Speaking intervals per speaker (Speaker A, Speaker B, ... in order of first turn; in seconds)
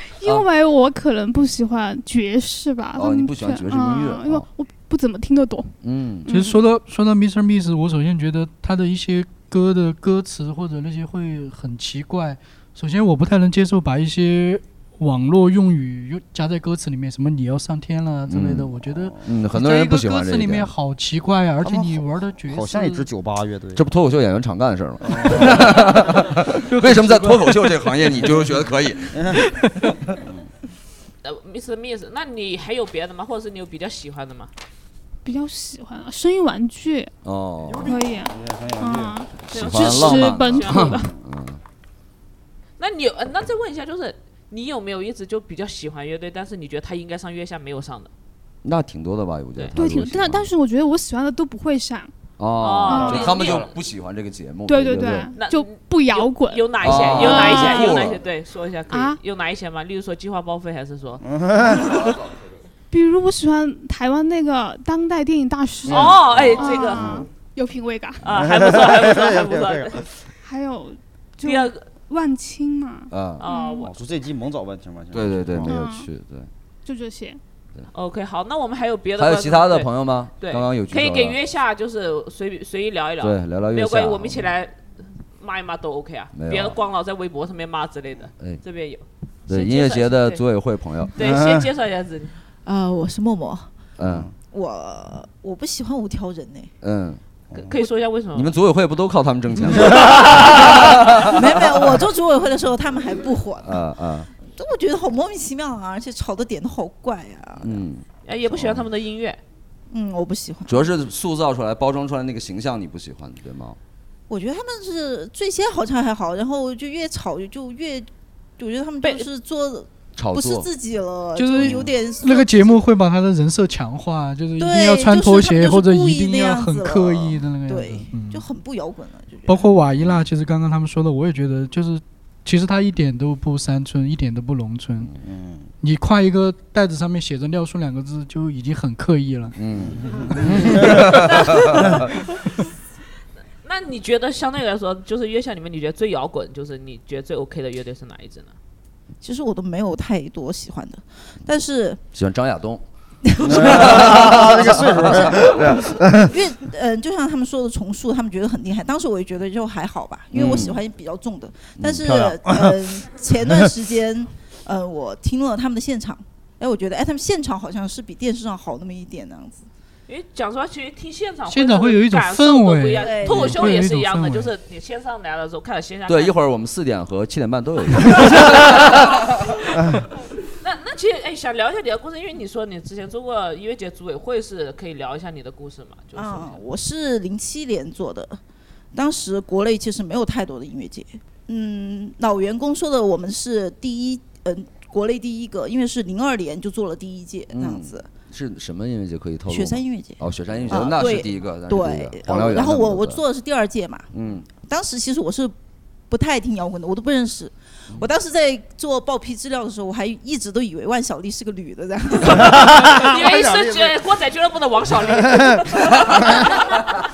Speaker A: 0.2-5.7, 6.3-6.6, 35.2-37.1, 37.8-41.1, 49.7-52.1, 52.9-53.4, 54.7-58.0, 58.9-59.2, 62.9-68.2, 70.4-73.9, 75.6-76.1, 76.8-77.4
Speaker B: 2.9-4.5, 5.8-6.3, 18.3-20.7, 23.7-29.2, 37.2-38.0, 39.4-41.6, 48.6-50.5, 52.4-55.3, 56.8-58.2, 65.9-66.8, 73.1-73.4, 75.1-76.5, 79.2-81.4, 83.2-84.5, 86.3-86.8, 89.5-91.1, 94.0-94.3, 96.8-97.2, 98.3-101.3, 103.6-104.3, 107.6-108.9, 110.7-113.8, 120.2-120.7, 139.5-142.1, 152.1-152.8, 153.4-155.9, 160.3-160.8, 176.1-179.2, 197.5-203.2, 204.1-204.5
Speaker C: 6.3-23.1, 26.6-27.9, 121.3-128.4, 129.5-135.1, 135.8-139.6, 171.5-174.5
Speaker D: 18.8-19.2, 21.6-23.8, 25.0-25.8, 29.1-29.4, 37.7-39.3, 53.0-53.7, 61.2-62.1, 66.9-67.3, 68.2-70.1, 73.8-75.7, 91.2-91.6, 94.0-94.3, 135.2-135.7, 139.8-141.2, 153.4-156.3, 161.9-162.8, 212.3-213.9, 215.1-216.5
Speaker E: 31.2-34.5, 39.5-41.0, 42.8-48.1, 52.6-53.7, 55.3-62.0, 65.8-67.2, 68.2-70.1, 71.4-71.8, 73.4-73.9, 77.9-84.8, 85.3-90.4, 91.1-92.3, 97.5-98.5, 108.2-109.4, 119.0-119.3, 143.6-148.5, 170.1-176.3, 180.6-186.6, 212.3-216.8
Speaker F: 92.6-93.7, 94.5-96.7, 100.7-103.8, 104.4-107.8, 109.9-110.9, 114.3-122.8, 124.6-129.7, 149.2-152.0, 153.2-155.3, 156.2-169.7, 173.0-173.6, 186.1-188.4, 188.9-198.1, 199.5-204.1, 204.6-205.5, 206.1-212.5